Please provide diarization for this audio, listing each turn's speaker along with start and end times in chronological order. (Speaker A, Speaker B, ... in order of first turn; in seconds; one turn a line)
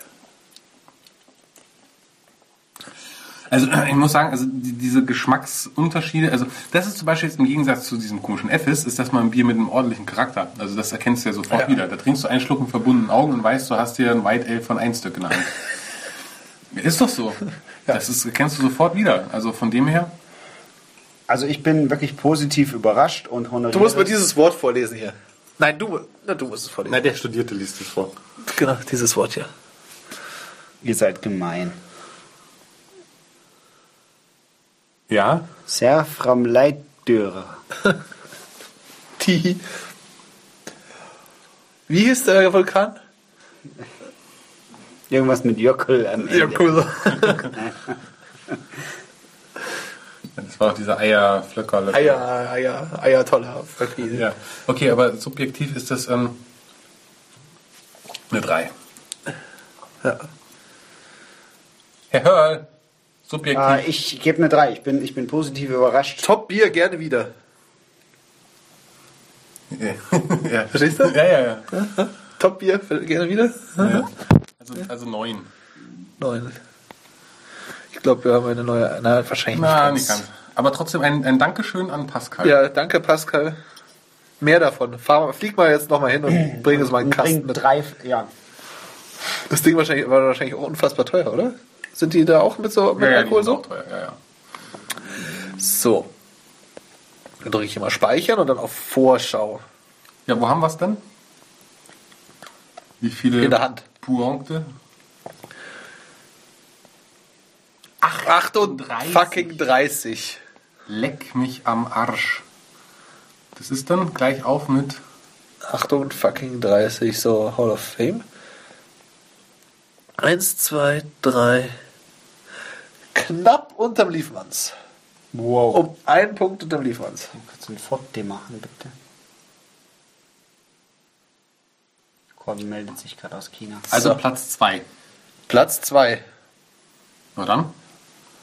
Speaker A: 3.5-15.6
Speaker A: 16.7-20.1
Speaker B: 21.3-24.2
Speaker C: 23.7-27.1
Speaker A: 26.9-28.1
Speaker C: 28.5-29.5
Speaker B: 30.8-31.8
Speaker A: 35.1-35.5
Speaker B: 35.7-37.6
Speaker C: 39.2-39.6
Speaker C: 41.9-43.0
Speaker B: 45.1-46.9
Speaker C: 46.2-47.6
Speaker A: 50.4-52.2
Speaker C: 51.9-54.3
Speaker A: 54.1-56.4
Speaker A: 58.3-58.7
Speaker A: 62.1-62.6
Speaker A: 63.3-63.8
Speaker B: 63.5-66.3
Speaker C: 66.2-67.3
Speaker A: 69.7-71.7
Speaker C: 70.7-71.2
Speaker C: 71.7-74.1
Speaker A: 73.8-74.1
Speaker A: 74.6-75.5
Speaker C: 76.2-76.6
Speaker C: 77.9-80.2
Speaker A: 79.5-82.6
Speaker C: 82.4-83.6
Speaker C: 84.4-87.6
Speaker B: 86.3-88.3
Speaker C: 89.5-93.6
Speaker A: 92.9-94.2
Speaker C: 95.5-96.1
Speaker C: 97.4-99.6
Speaker A: 100.3-101.0
Speaker A: 103.0-104.7
Speaker C: 103.4-103.8
Speaker A: 108.0-109.6
Speaker C: 108.2-110.4
Speaker A: 110.9-112.4
Speaker A: 113.5-115.0
Speaker C: 115.6-118.2
Speaker C: 120.2-121.7
Speaker C: 123.1-124.7
Speaker B: 125.3-125.8
Speaker C: 125.7-127.3
Speaker B: 127.3-128.9
Speaker B: 132.4-133.9
Speaker A: 133.9-134.8
Speaker C: 133.9-134.2
Speaker C: 135.5-136.2
Speaker A: 137.3-137.7